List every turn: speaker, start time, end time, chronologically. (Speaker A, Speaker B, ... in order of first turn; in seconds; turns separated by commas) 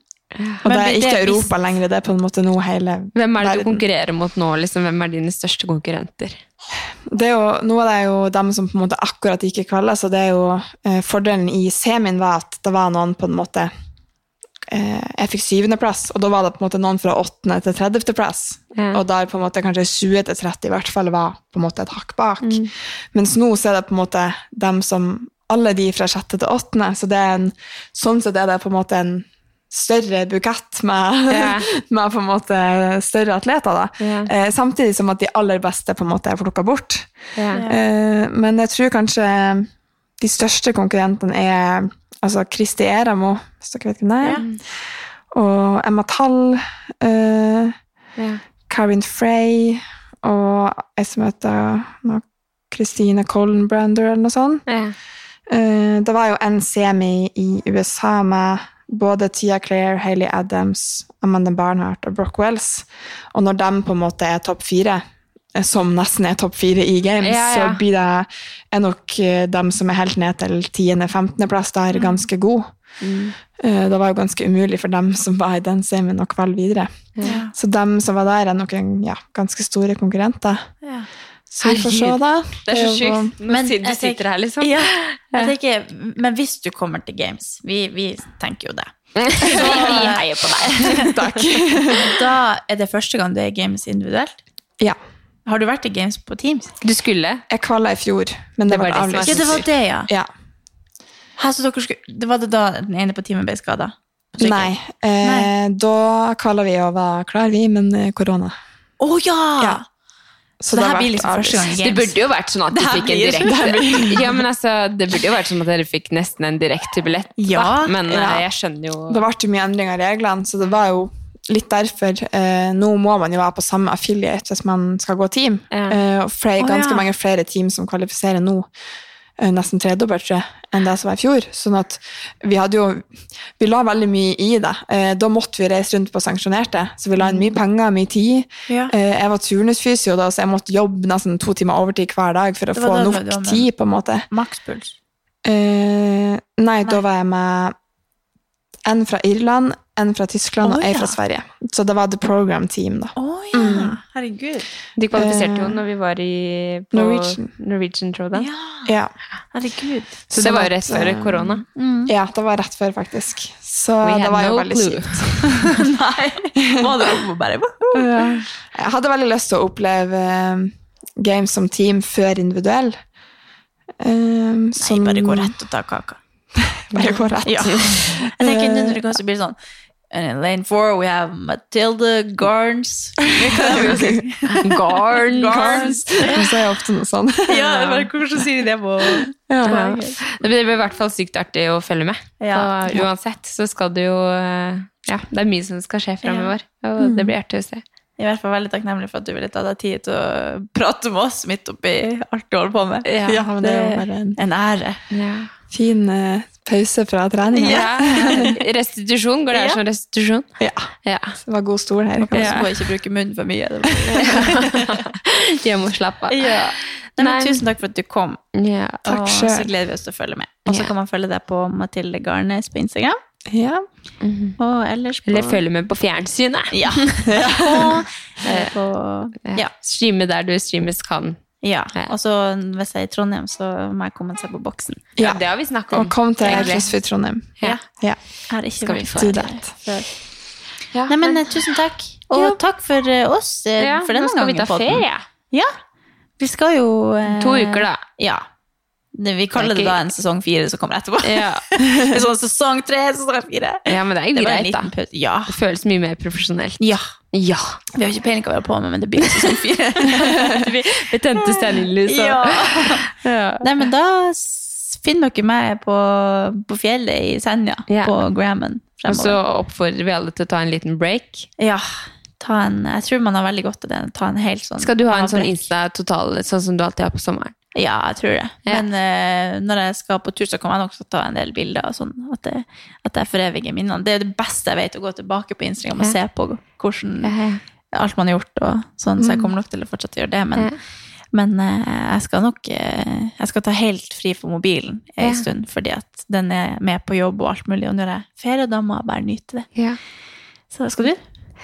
Speaker A: 0.4-0.6, Speaker B: 0.6-3.8, Speaker C: 0.6-1.5, Speaker A: 3.2-6.4, Speaker B: 7.1-13.7, Speaker B: 14.7-47.8, Speaker A: 18.8-19.0, Speaker A: 22.4-22.7, Speaker A: 31.3-31.7, Speaker A: 34.0-34.3, Speaker A: 37.4-37.6, Speaker C: 37.5-37.8, Speaker B: 48.7-54.6, Speaker A: 54.7-55.0, Speaker B: 55.5-65.0, Speaker B: 65.5-72.7, Speaker A: 67.2-67.8, Speaker A: 73.0-73.3, Speaker B: 73.6-80.7, Speaker C: 77.2-77.5, Speaker C: 80.8-81.1, Speaker B: 81.5-83.3, Speaker A: 81.6-85.5, Speaker C: 83.5-91.1, Speaker A: 89.2-91.1, Speaker B: 89.5-92.1, Speaker C: 91.9-94.4, Speaker C: 95.5-96.8, Speaker A: 96.8-97.4, Speaker B: 97.5-100.3, Speaker A: 98.7-99.7, Speaker C: 99.2-100.1, Speaker C: 101.4-105.5, Speaker B: 104.4-108.6, Speaker C: 109.0-109.8, Speaker B: 110.6-111.8, Speaker C: 110.7-112.2, Speaker A: 111.8-119.2, Speaker C: 112.7-113.6, Speaker B: 113.4-114.3, Speaker B: 117.4-118.5, Speaker C: 117.4-117.9, Speaker B: 119.1-128.7, Speaker A: 125.7-126.0, Speaker C: 126.6-127.1, Speaker B: 129.4-144.3, Speaker C: 138.7-138.9, Speaker C: 142.7-143.7, Speaker C: 144.3-144.9, Speaker B: 145.4-147.8, Speaker B: 148.8-154.0, Speaker C: 150.6-151.2, Speaker C: 153.2-154.7, Speaker A: 155.0-158.5, Speaker B: 155.1-155.8, Speaker B: 156.9-157.5, Speaker C: 158.3-158.9, Speaker B: 158.8-159.2, Speaker C: 159.5-160.2, Speaker B: 160.3-165.5, Speaker A: 160.3-161.6, Speaker C: 161.8-162.1, Speaker A: 164.0-165.7, Speaker C: 165.8-168.4, Speaker B: 167.9-173.0, Speaker B: 174.0-175.6, Speaker C: 174.8-176.2, Speaker B: 176.9-179.0, Speaker C: 177.4-179.6, Speaker C: 180.1-186.5, Speaker B: 183.5-184.2, Speaker A: 183.7-186.3, Speaker B: 185.4-187.6, Speaker C: 187.5-190.2, Speaker A: 187.5-188.1, Speaker B: 189.5-189.9, Speaker A: 189.7-197.8, Speaker C: 192.4-192.7, Speaker C: 196.2-196.5, Speaker B: 197.0-197.3, Speaker C: 198.2-205.0, Speaker A: 203.1-203.4, Speaker B: 203.4-204.4, Speaker A: 205.1-205.5, Speaker B: 205.7-208.6, Speaker C: 207.6-208.6, Speaker A: 207.6-210.5, Speaker C: 209.5-209.8, Speaker B: 210.6-212.7, Speaker A: 211.0-211.4, Speaker C: 212.2-215.0, Speaker A: 212.3-212.6, Speaker A: 214.4-217.6, Speaker C: 216.3-218.4, Speaker A: 218.6-219.1, Speaker B: 219.1-219.7, Speaker C: 219.1-223.2, Speaker B: 223.5-223.9, Speaker A: 224.2-224.6, Speaker C: 224.6-225.6, Speaker A: 225.3-227.3, Speaker C: 226.7-229.7, Speaker B: 227.3-227.9, Speaker A: 228.4-228.7, Speaker A: 229.4-231.4, Speaker C: 231.6-235.0, Speaker B: 235.2-238.2, Speaker A: 235.2-236.9, Speaker C: 236.4-236.8, Speaker C: 238.5-240.1, Speaker A: 238.8-239.4, Speaker B: 239.2-239.8, Speaker A: 241.0-241.6, Speaker C: 241.1-245.7, Speaker A: 242.3-242.6, Speaker A: 243.8-245.3, Speaker C: 246.4-248.4, Speaker A: 247.3-248.0, Speaker C: 249.2-255.6, Speaker A: 249.6-250.0, Speaker A: 251.2-251.7, Speaker A: 253.9-254.9, Speaker A: 255.5-256.8, Speaker C: 256.8-257.1, Speaker A: 257.3-257.8, Speaker C: 257.9-260.6, Speaker A: 260.3-263.6, Speaker C: 261.5-269.4, Speaker A: 267.9-268.2, Speaker A: 269.1-271.5, Speaker C: 271.6-275.6, Speaker A: 274.8-277.6, Speaker C: 277.7-287.4, Speaker A: 287.2-287.6, Speaker C: 287.9-290.8, Speaker C: 291.3-299.7, Speaker C: 300.7-301.2